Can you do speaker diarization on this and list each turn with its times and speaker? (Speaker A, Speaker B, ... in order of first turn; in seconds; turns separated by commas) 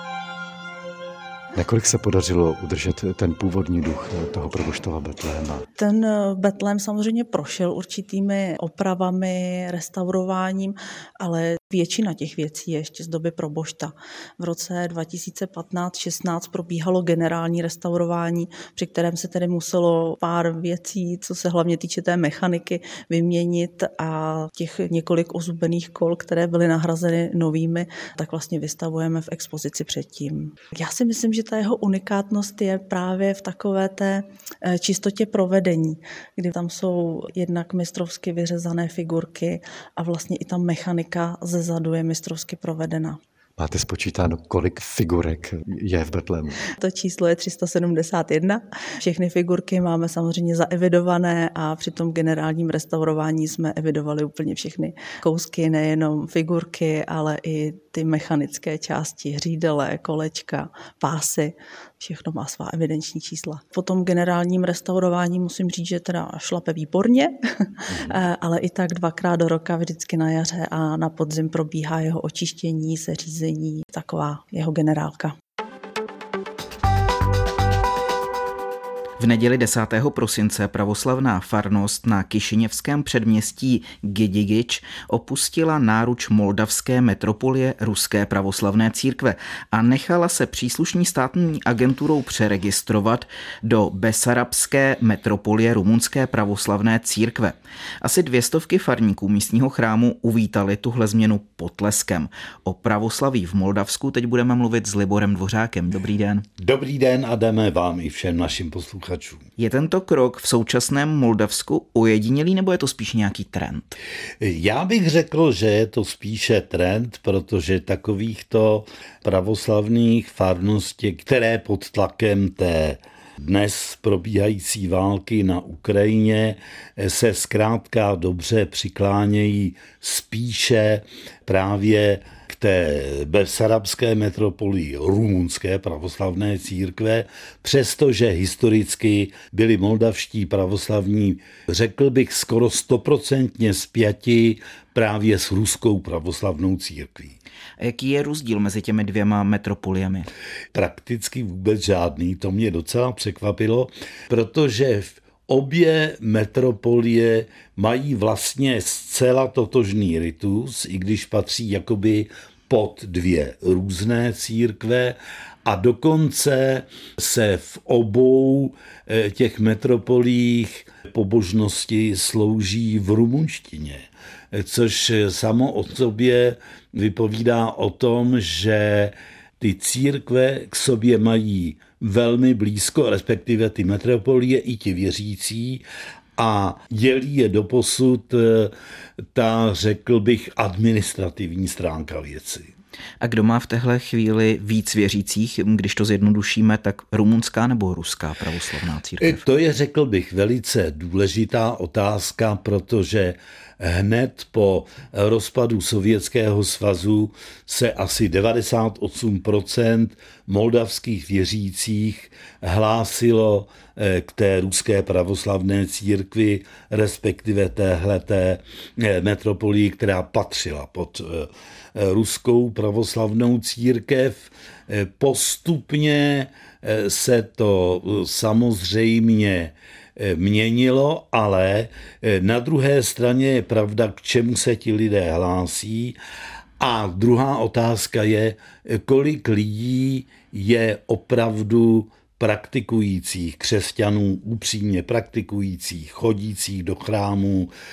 Speaker A: 1.6-5.7, Speaker B: 5.8-43.2, Speaker A: 43.6-46.6, Speaker B: 46.8-75.3, Speaker C: 79.2-106.5, Speaker D: 106.6-109.5, Speaker C: 109.6-114.0, Speaker D: 114.4-147.4, Speaker C: 147.8-150.3, Speaker D: 150.7-185.8, Speaker D: 186.4-188.7, Speaker D: 189.3-192.7, Speaker C: 193.2-199.4, Speaker D: 199.2-236.2, Speaker D: 236.8-247.7